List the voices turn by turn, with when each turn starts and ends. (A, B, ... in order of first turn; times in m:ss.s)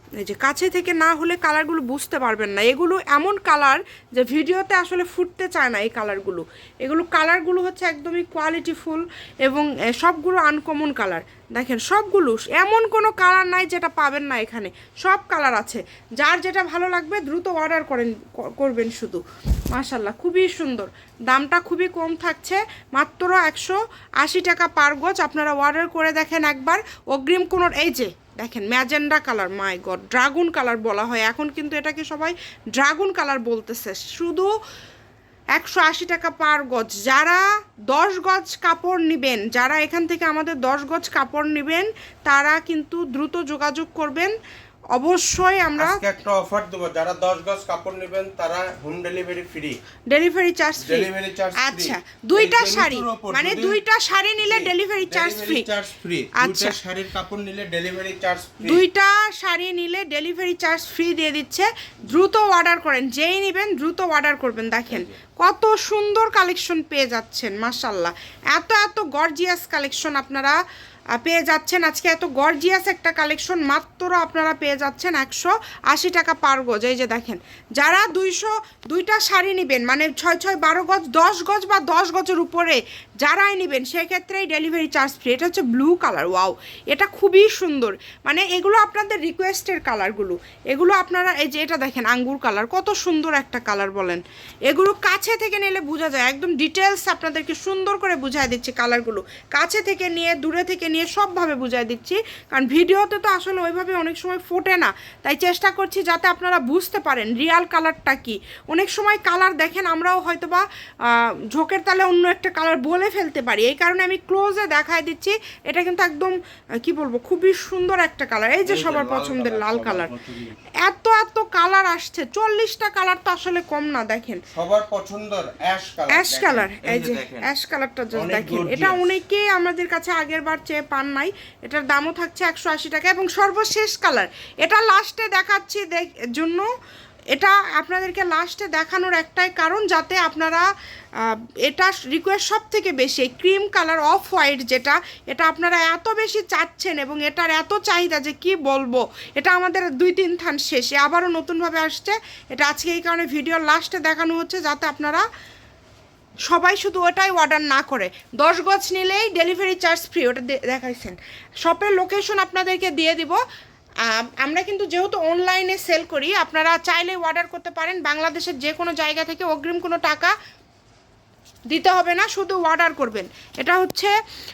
0:00.2-0:34.5 A
0:35.5-0:44.3 A
0:44.9-0:46.0 A
0:45.8-0:49.8 B
0:50.1-0:55.7 A
0:50.8-0:53.8 B
0:54.4-0:58.8 B
0:56.4-0:56.8 A
0:58.6-1:10.6 A
1:11.1-2:00.1 A
1:58.6-2:00.6 B
2:00.8-2:04.4 A
2:04.5-2:07.5 B
2:06.1-2:16.7 A
2:08.1-2:09.1 B
2:17.3-2:20.7 A
2:21.2-2:35.2 A
2:36.5-2:43.4 A
2:44.0-2:50.3 A
2:51.7-2:54.1 A